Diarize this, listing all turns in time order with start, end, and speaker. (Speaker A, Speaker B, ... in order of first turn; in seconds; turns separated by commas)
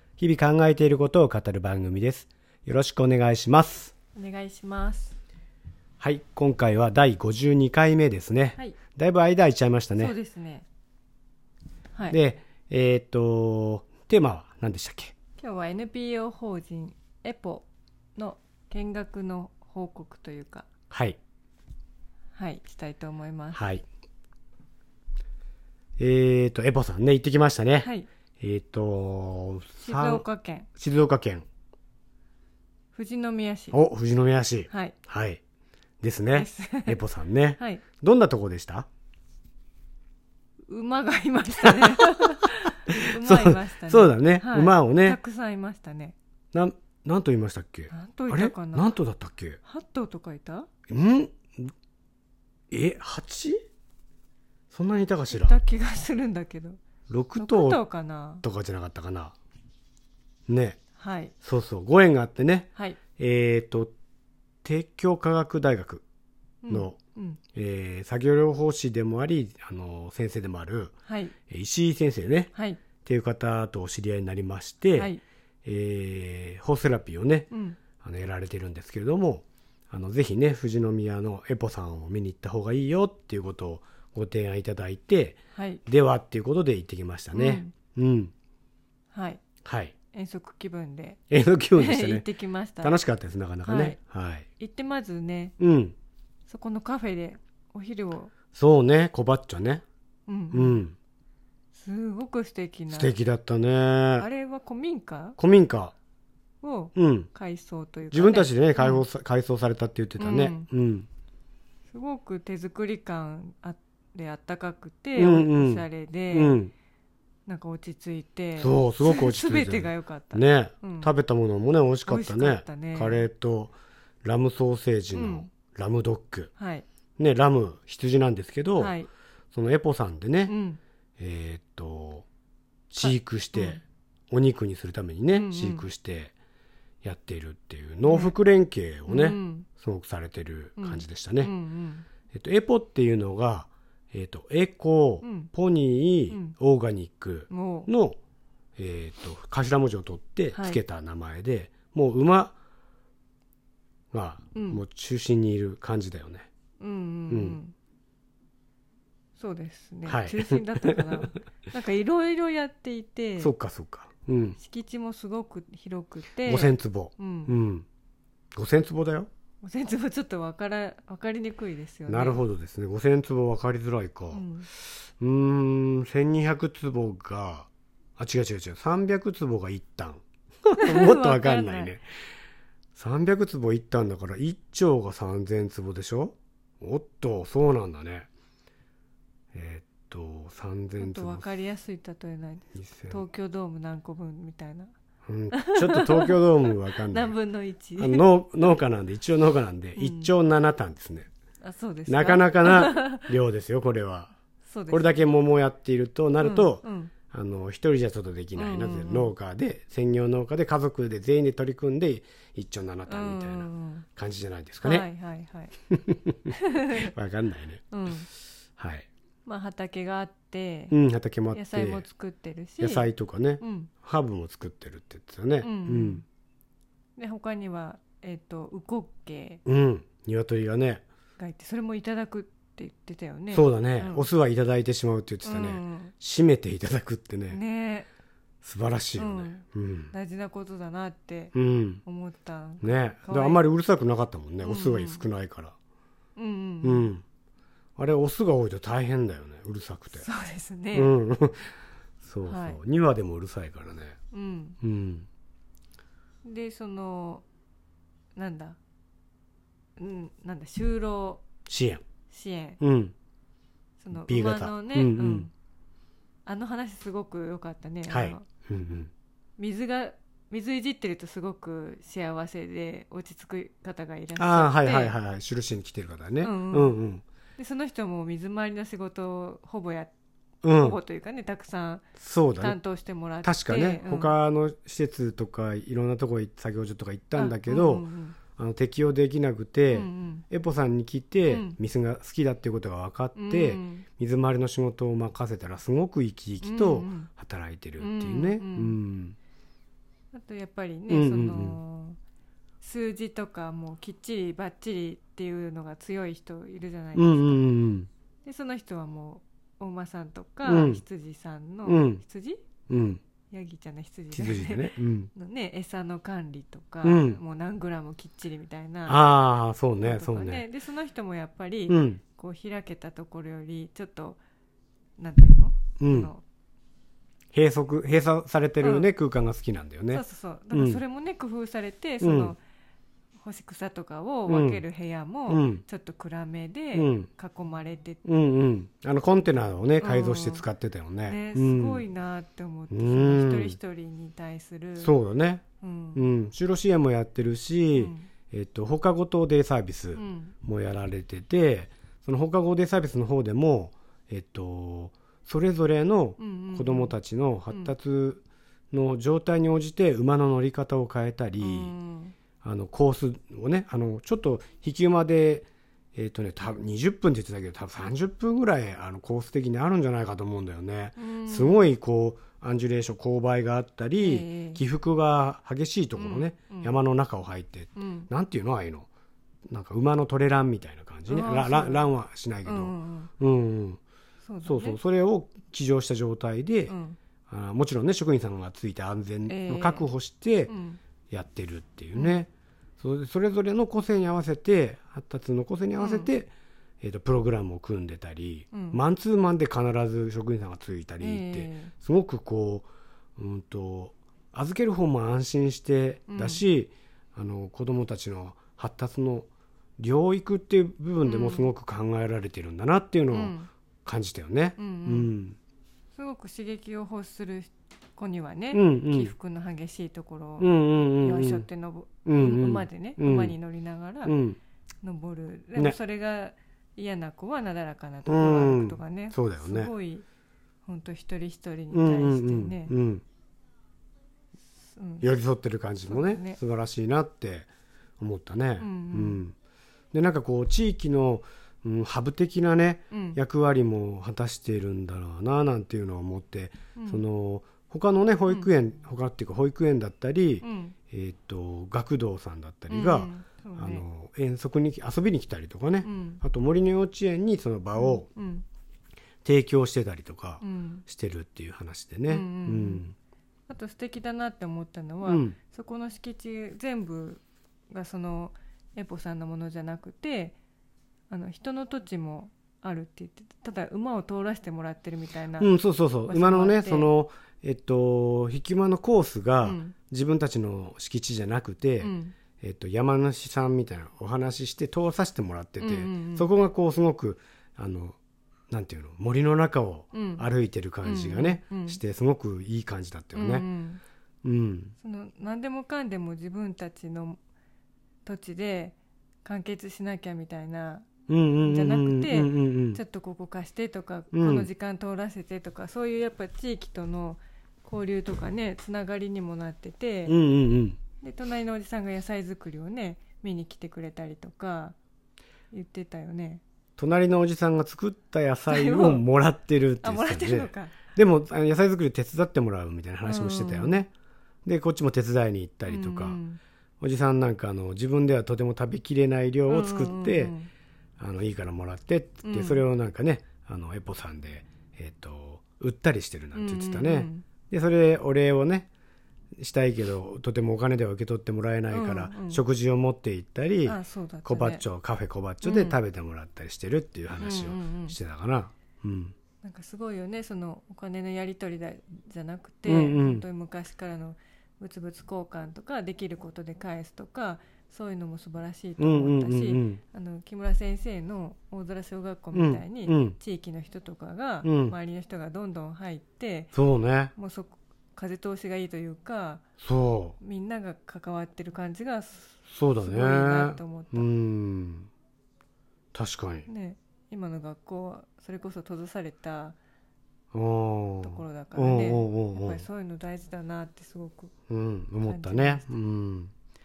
Speaker A: 0.2-3.9, Speaker B: 4.1-5.2, Speaker A: 6.0-10.1, Speaker B: 9.9-10.6, Speaker A: 12.1-15.1, Speaker B: 15.4-20.7, Speaker A: 20.9-21.2, Speaker B: 22.3-23.6, Speaker A: 23.5-23.8, Speaker A: 26.0-31.4, Speaker B: 27.8-28.1, Speaker B: 29.8-30.7, Speaker B: 32.9-33.8, Speaker A: 33.7-35.4, Speaker B: 34.7-34.9, Speaker A: 36.0-38.9, Speaker B: 36.3-37.0, Speaker B: 37.6-37.8, Speaker B: 40.7-46.1, Speaker A: 41.6-42.0, Speaker A: 43.0-45.2, Speaker A: 46.5-49.6, Speaker B: 47.9-49.0, Speaker B: 49.6-50.7, Speaker A: 50.9-51.7, Speaker A: 52.7-53.6, Speaker A: 54.7-55.6, Speaker B: 55.3-56.8, Speaker A: 57.1-57.8, Speaker B: 57.4-58.4, Speaker A: 58.4-59.3, Speaker A: 60.5-60.8, Speaker B: 61.0-61.3, Speaker A: 61.4-63.9, Speaker B: 62.8-63.0, Speaker A: 64.6-66.0, Speaker B: 66.6-67.4, Speaker A: 66.7-67.0, Speaker A: 67.5-70.9, Speaker B: 71.1-71.3, Speaker A: 71.5-72.5, Speaker B: 72.5-72.8, Speaker A: 73.0-75.1, Speaker B: 74.9-75.2, Speaker A: 75.6-88.3, Speaker B: 77.5-77.8, Speaker B: 85.5-85.8, Speaker B: 87.3-87.7, Speaker B: 89.1-89.4, Speaker A: 89.6-89.9, Speaker B: 90.1-91.2, Speaker A: 91.3-92.2, Speaker B: 91.7-93.0, Speaker A: 92.8-94.5, Speaker B: 93.6-94.0, Speaker B: 94.6-95.5, Speaker A: 95.6-95.9, Speaker B: 96.5-98.3, Speaker A: 98.5-99.8, Speaker B: 100.3-100.8, Speaker A: 100.5-101.0, Speaker B: 101.7-103.1, Speaker A: 102.9-104.3, Speaker B: 104.2-105.4, Speaker A: 105.4-105.9, Speaker B: 106.6-109.0, Speaker A: 107.0-107.3, Speaker A: 108.1-111.1, Speaker B: 110.2-110.7, Speaker B: 111.9-116.6, Speaker A: 115.2-116.7, Speaker B: 117.5-121.1, Speaker A: 118.6-126.5, Speaker B: 122.1-123.2, Speaker B: 125.1-125.5, Speaker B: 126.6-126.8, Speaker A: 127.2-128.9, Speaker B: 128.8-129.1, Speaker A: 129.5-130.5, Speaker B: 130.5-130.8, Speaker A: 131.2-132.3, Speaker A: 132.9-136.3, Speaker B: 133.0-133.8, Speaker B: 135.3-135.8, Speaker A: 137.0-141.5, Speaker B: 138.0-138.3, Speaker B: 139.1-139.7, Speaker B: 140.8-142.1, Speaker A: 142.3-148.2, Speaker B: 145.2-145.5, Speaker B: 147.5-147.9, Speaker A: 148.8-152.6, Speaker B: 150.5-150.8, Speaker A: 154.1-156.5, Speaker B: 154.5-154.8, Speaker B: 156.8-157.7, Speaker A: 157.3-157.6, Speaker B: 159.4-163.5, Speaker A: 160.1-161.2, Speaker A: 163.4-164.6, Speaker B: 164.6-167.5, Speaker A: 166.4-167.9, Speaker A: 168.5-169.3, Speaker B: 169.6-172.4, Speaker A: 172.1-182.0, Speaker B: 174.3-174.7, Speaker B: 180.8-181.9, Speaker A: 182.9-188.3, Speaker A: 189.5-191.4, Speaker B: 191.0-194.9, Speaker A: 192.7-193.2, Speaker A: 195.2-197.3, Speaker B: 195.5-198.3, Speaker A: 198.0-201.3, Speaker B: 199.9-200.3, Speaker B: 201.6-203.3, Speaker A: 202.1-204.3, Speaker B: 204.7-205.2, Speaker A: 204.9-215.1, Speaker B: 206.4-207.1, Speaker B: 208.5-209.3, Speaker B: 213.1-214.1, Speaker B: 214.8-215.7, Speaker A: 215.9-217.8, Speaker B: 216.5-217.1, Speaker B: 217.9-218.3, Speaker A: 218.8-219.1, Speaker B: 219.4-220.9, Speaker A: 220.9-222.0, Speaker B: 221.5-223.1, Speaker A: 222.8-226.2, Speaker B: 223.6-223.9, Speaker B: 225.6-226.2, Speaker B: 227.2-229.6, Speaker A: 229.6-231.0, Speaker B: 231.4-234.3, Speaker A: 233.5-237.6, Speaker B: 235.4-236.1, Speaker B: 237.5-238.1, Speaker A: 238.6-240.1, Speaker B: 239.2-243.6, Speaker A: 241.5-242.0, Speaker A: 242.8-245.7, Speaker B: 244.6-245.3, Speaker B: 246.3-247.1, Speaker A: 246.8-247.2, Speaker A: 248.0-250.2, Speaker B: 250.1-251.1, Speaker A: 250.9-254.2, Speaker B: 252.4-252.8, Speaker B: 254.3-254.8, Speaker A: 254.8-255.3, Speaker B: 256.4-257.4, Speaker B: 258.4-258.8, Speaker B: 260.0-261.4, Speaker A: 261.6-262.0, Speaker B: 262.3-262.8, Speaker A: 262.8-263.1, Speaker B: 264.0-265.5, Speaker A: 264.2-265.5, Speaker B: 266.4-268.5, Speaker A: 268.1-269.1, Speaker B: 269.6-275.2, Speaker A: 274.4-277.2, Speaker B: 276.4-277.0, Speaker B: 277.6-280.1, Speaker A: 280.6-281.0, Speaker B: 280.7-282.1, Speaker A: 282.2-282.8, Speaker B: 282.6-284.3, Speaker A: 283.4-299.4, Speaker B: 287.3-288.4, Speaker B: 289.9-290.4, Speaker B: 291.5-291.8, Speaker B: 293.3-294.0, Speaker B: 296.6-297.3, Speaker B: 298.0-299.0, Speaker B: 300.3-302.2, Speaker A: 301.1-301.8, Speaker B: 302.8-307.7, Speaker A: 307.1-308.1, Speaker B: 308.4-312.6, Speaker A: 310.6-311.0, Speaker A: 311.9-312.2, Speaker A: 312.9-313.2, Speaker B: 313.5-319.2, Speaker A: 314.3-315.3, Speaker A: 317.0-317.4, Speaker A: 319.1-320.6, Speaker B: 320.0-324.4, Speaker A: 321.9-322.2, Speaker B: 325.2-326.4, Speaker A: 326.0-326.3, Speaker A: 327.5-331.0, Speaker B: 328.8-329.1, Speaker B: 330.1-332.6, Speaker A: 332.2-332.5, Speaker B: 333.4-338.2, Speaker A: 334.5-334.8, Speaker A: 335.5-335.8, Speaker A: 336.9-337.3, Speaker A: 338.2-342.0, Speaker B: 340.0-340.6, Speaker B: 341.2-345.1, Speaker A: 342.9-343.8, Speaker A: 345.0-345.6, Speaker B: 345.8-346.2, Speaker A: 346.1-361.9, Speaker B: 347.9-348.3, Speaker B: 350.1-350.5, Speaker B: 356.4-357.1, Speaker B: 357.7-357.9, Speaker B: 361.6-362.4, Speaker A: 362.6-379.1, Speaker B: 371.2-371.9, Speaker B: 374.2-374.8, Speaker B: 376.1-377.0, Speaker B: 377.9-378.3, Speaker A: 379.7-384.0, Speaker B: 381.3-382.1, Speaker B: 382.6-383.3, Speaker B: 384.4-385.0, Speaker A: 384.6-386.9, Speaker B: 386.9-387.2, Speaker A: 387.5-390.7, Speaker B: 389.5-390.1, Speaker B: 390.7-391.0, Speaker A: 391.3-392.5, Speaker B: 392.1-392.4, Speaker A: 393.0-396.5, Speaker B: 396.0-396.3, Speaker A: 397.0-415.6, Speaker B: 398.7-399.0, Speaker B: 401.2-401.9, Speaker B: 406.3-406.6, Speaker B: 411.2-411.7, Speaker B: 413.3-413.7, Speaker B: 414.8-415.3, Speaker B: 416.1-424.4, Speaker A: 418.7-419.3, Speaker A: 420.6-421.6, Speaker A: 422.2-423.6, Speaker A: 424.2-424.6, Speaker B: 425.0-430.2, Speaker A: 428.2-429.9, Speaker B: 430.9-432.9, Speaker A: 431.9-433.2, Speaker B: 434.9-435.3, Speaker A: 435.2-437.7, Speaker B: 436.1-436.6, Speaker A: 438.2-439.5, Speaker B: 438.8-439.4, Speaker A: 440.1-458.3, Speaker B: 443.1-443.4, Speaker B: 446.9-447.2, Speaker B: 450.6-450.9, Speaker B: 452.9-454.0, Speaker B: 456.0-456.4, Speaker B: 457.9-458.6, Speaker A: 459.4-463.1, Speaker B: 460.6-461.0, Speaker B: 462.3-463.1, Speaker B: 463.7-470.6, Speaker A: 465.2-465.6, Speaker B: 471.3-475.7, Speaker A: 475.6-488.2, Speaker B: 476.2-477.1, Speaker B: 479.6-479.9, Speaker B: 482.0-482.4, Speaker B: 485.8-486.5, Speaker A: 488.7-493.7, Speaker B: 490.1-490.4, Speaker B: 491.0-492.0, Speaker B: 493.3-494.0, Speaker A: 494.4-494.9, Speaker B: 495.0-497.4, Speaker B: 498.2-501.1, Speaker A: 501.3-503.0, Speaker B: 501.6-510.4, Speaker A: 504.3-504.7, Speaker A: 510.3-511.0, Speaker B: 511.2-515.0, Speaker B: 515.7-516.6, Speaker A: 517.0-524.1, Speaker B: 518.7-519.2, Speaker B: 520.0-521.1, Speaker B: 523.2-524.0, Speaker A: 524.6-526.4, Speaker B: 525.9-526.6, Speaker A: 527.0-530.5, Speaker B: 529.7-530.7, Speaker A: 531.2-538.9, Speaker B: 532.4-532.8, Speaker B: 536.5-537.4, Speaker A: 539.6-549.3, Speaker B: 541.9-542.6, Speaker B: 543.8-544.8, Speaker B: 545.6-546.0, Speaker B: 547.4-548.1, Speaker B: 549.6-566.7, Speaker A: 552.9-553.4, Speaker A: 559.0-560.0, Speaker A: 562.5-563.4, Speaker A: 564.6-564.9, Speaker A: 566.7-567.3, Speaker B: 567.4-569.6, Speaker A: 569.8-570.4, Speaker B: 570.4-574.3, Speaker A: 572.7-575.1, Speaker A: 576.1-576.7, Speaker B: 576.7-579.8, Speaker A: 580.5-582.8, Speaker B: 581.2-584.5, Speaker A: 584.7-586.5, Speaker B: 585.2-585.9